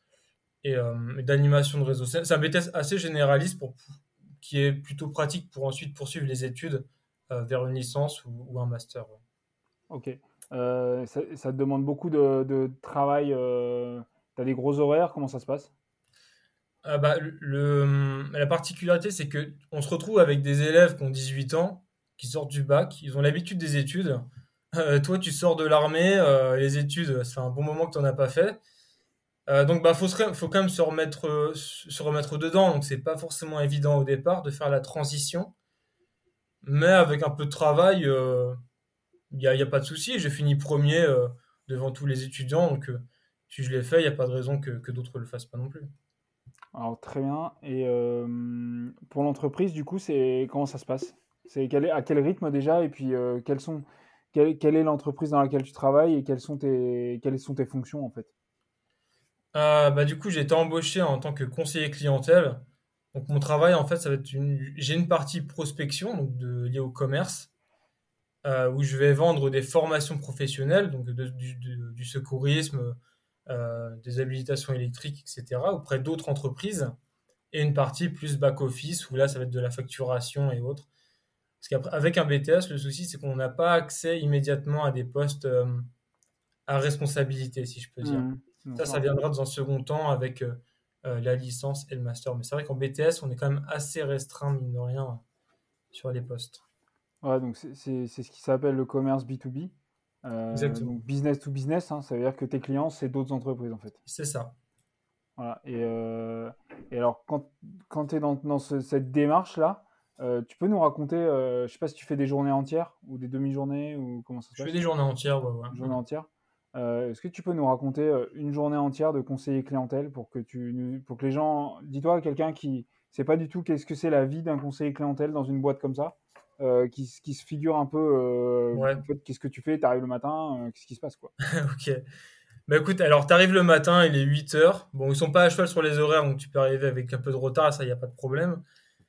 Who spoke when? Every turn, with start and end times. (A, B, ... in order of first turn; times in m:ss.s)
0:00.6-0:09.2 A
0:09.9-0:15.7 B
0:16.8-0:28.6 A
0:29.5-0:35.5 A
0:36.6-0:38.6 A
0:39.3-0:45.9 A
0:46.7-0:58.3 B
0:59.5-1:07.5 A
1:08.4-1:17.0 A
1:17.5-1:20.9 A
1:21.6-1:25.9 A
1:26.7-1:35.2 A
1:28.0-1:29.0 B
1:35.9-1:36.6 A
1:37.2-1:39.7 B
1:40.2-1:44.0 B
1:40.5-1:41.0 A
1:44.1-1:44.6 A
1:45.4-1:54.8 B
1:54.6-1:56.0 A
1:55.7-2:11.3 B
2:08.7-2:09.0 A
2:11.4-2:12.0 A
2:12.7-2:18.6 A